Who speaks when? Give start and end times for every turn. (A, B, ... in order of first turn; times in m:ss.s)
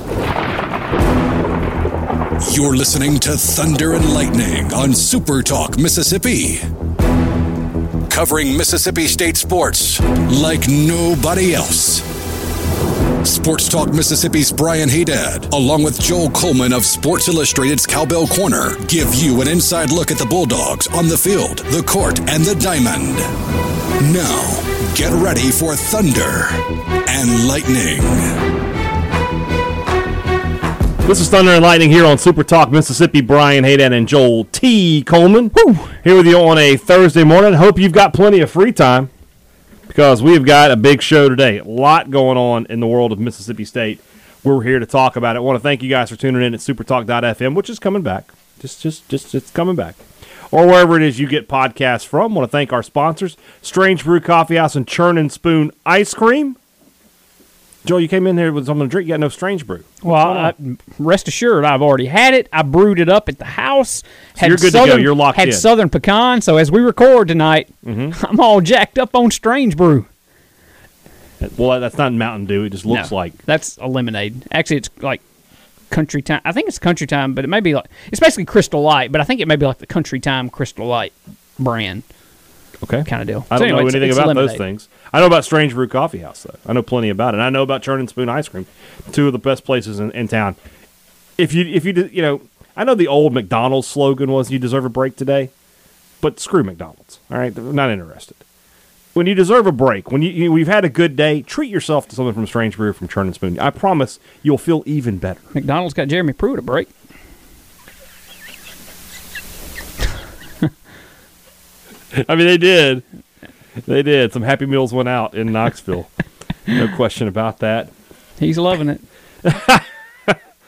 0:02.4-0:06.6 A
0:08.1-0:12.1 A
0:13.2-0:23.3 A
0:24.0-0:28.4 A
0:31.0-0:39.1 B
0:35.5-0:35.9 C
0:39.9-0:50.0 B
0:50.5-0:56.6 B
0:57.8-1:00.5 B
1:00.0-1:10.1 C
1:04.4-1:05.7 B
1:07.8-1:08.2 B
1:11.4-1:13.4 B
1:12.9-1:15.2 C
1:15.9-1:22.0 C
1:22.8-1:30.6 B
1:23.1-1:24.6 C
1:31.4-1:35.5 B
1:36.2-1:38.4 B
1:39.1-1:45.5 B
1:45.5-1:46.9 C
1:52.1-1:53.0 B
1:53.8-1:56.1 B
1:56.7-1:57.9 B
1:58.4-1:59.0 C
1:59.4-2:00.4 B